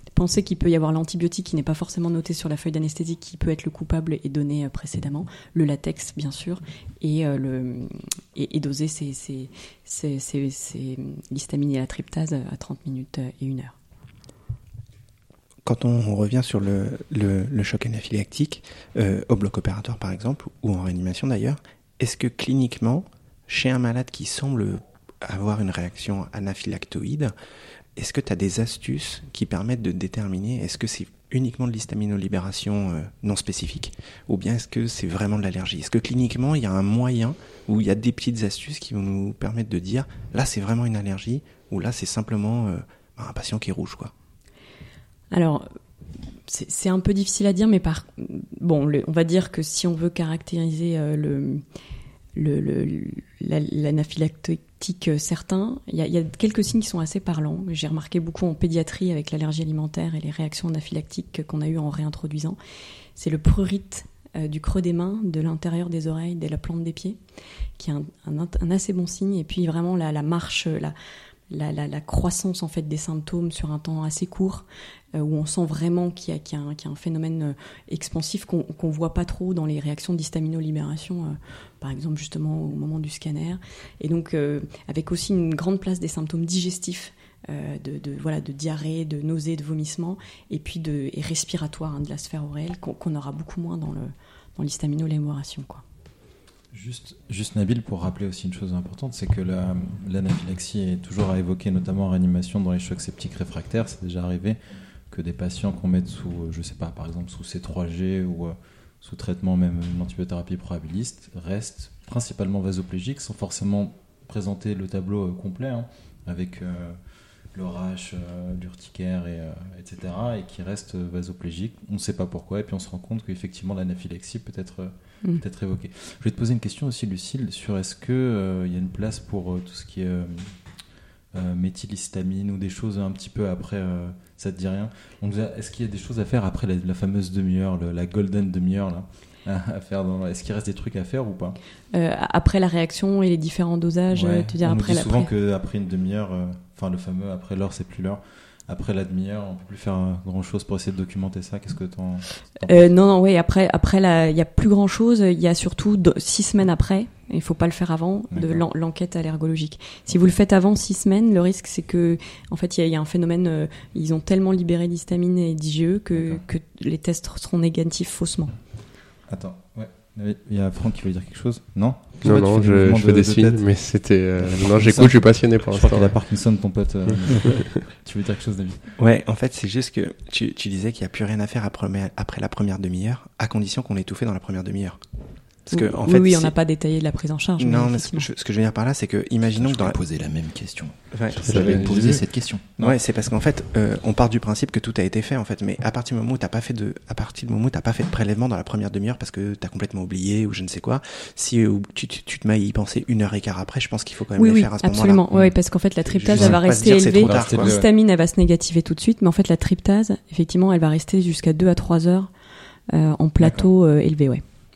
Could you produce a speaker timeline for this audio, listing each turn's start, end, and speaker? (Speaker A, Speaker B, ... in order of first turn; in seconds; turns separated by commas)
Speaker A: 0.1-13.8, Speaker B: 15.7-27.3, Speaker B: 28.0-44.1, Speaker A: 45.3-45.6, Speaker A: 46.5-51.6, Speaker A: 52.4-62.6, Speaker A: 63.2-67.2, Speaker A: 67.8-71.0, Speaker A: 71.5-95.8, Speaker C: 96.7-104.6, Speaker C: 105.1-117.0, Speaker C: 117.5-130.6, Speaker C: 131.3-141.6, Speaker A: 141.9-145.3, Speaker C: 144.1-152.8, Speaker A: 152.7-168.5, Speaker C: 158.3-158.6, Speaker C: 166.2-166.4, Speaker C: 169.3-173.8, Speaker D: 172.2-176.2, Speaker C: 174.4-178.8, Speaker D: 177.4-177.7, Speaker B: 179.0-185.0, Speaker B: 185.7-186.5, Speaker A: 185.7-188.3, Speaker B: 187.6-190.0, Speaker E: 189.5-192.9, Speaker B: 191.1-192.2, Speaker D: 191.4-191.8, Speaker C: 191.6-192.2, Speaker B: 192.8-205.2, Speaker A: 204.4-212.3, Speaker B: 206.1-207.7, Speaker C: 206.3-207.9, Speaker A: 212.9-214.4, Speaker C: 213.4-213.7